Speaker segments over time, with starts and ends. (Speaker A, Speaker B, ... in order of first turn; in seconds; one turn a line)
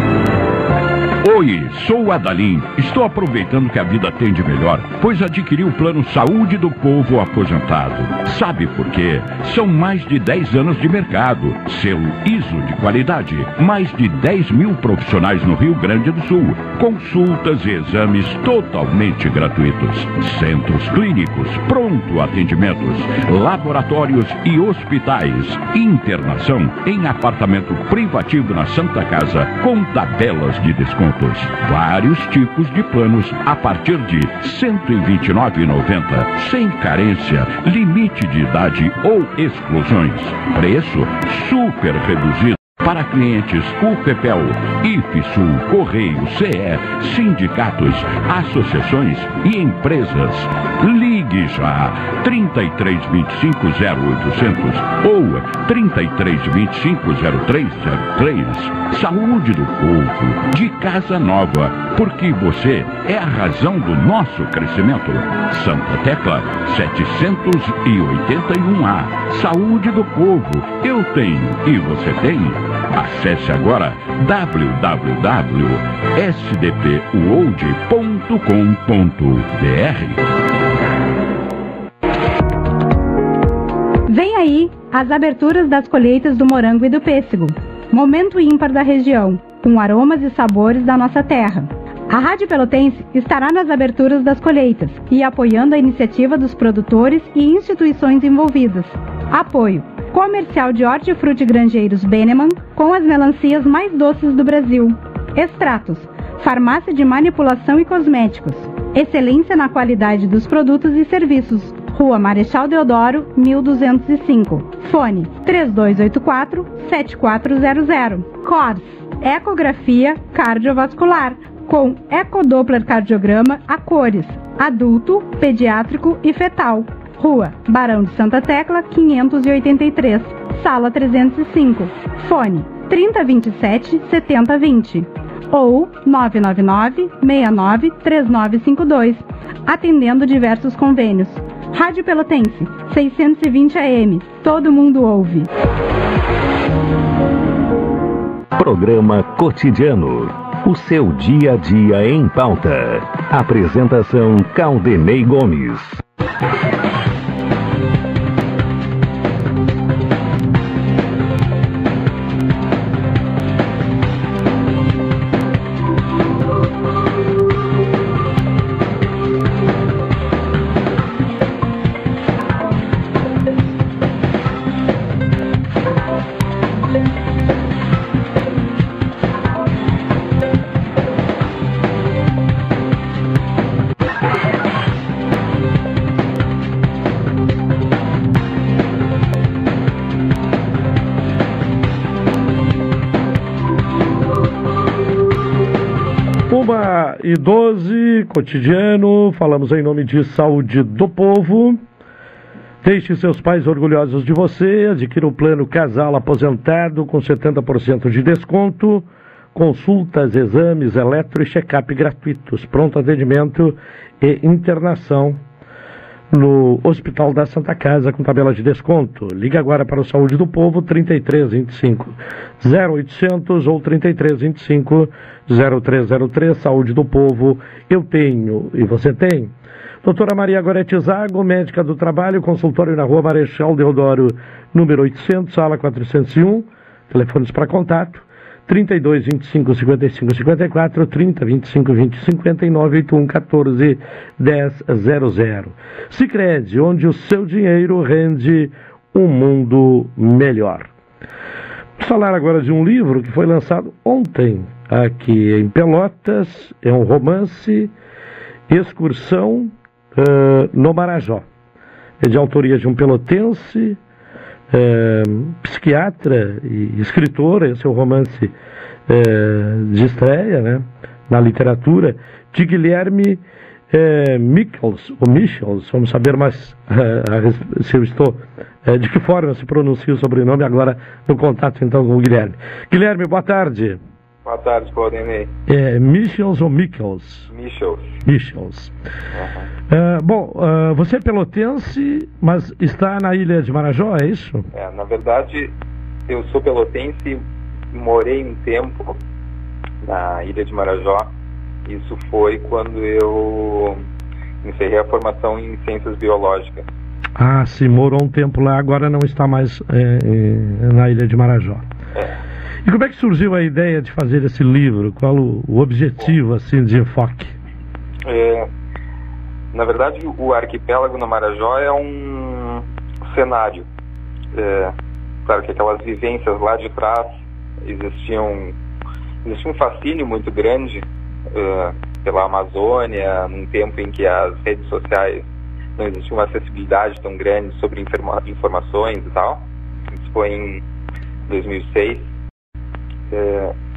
Speaker A: 1.2-80.2
Speaker B: 84.1-145.5
Speaker C: 148.6-156.0
Speaker D: 196.5-201.8
Speaker D: 202.8-215.4
Speaker D: 216.3-250.9
Speaker D: 252.0-257.9
Speaker D: 258.7-261.4
Speaker D: 262.2-264.0
Speaker D: 264.7-268.5
Speaker D: 269.1-284.0
Speaker E: 284.4-285.5
Speaker D: 285.7-287.5
Speaker E: 287.5-288.2
Speaker D: 288.2-288.9
Speaker E: 289.3-289.7
Speaker D: 289.9-294.7
Speaker E: 294.7-295.7
Speaker E: 296.3-299.2
Speaker E: 300.0-301.3
Speaker E: 301.9-304.0
Speaker E: 304.6-306.9
Speaker D: 307.4-311.8
Speaker D: 312.9-317.5
Speaker E: 318.2-318.7
Speaker E: 319.7-323.9
Speaker E: 324.5-324.9
Speaker E: 325.5-328.8
Speaker E: 329.4-340.8
Speaker E: 341.5-342.3
Speaker E: 343.3-343.7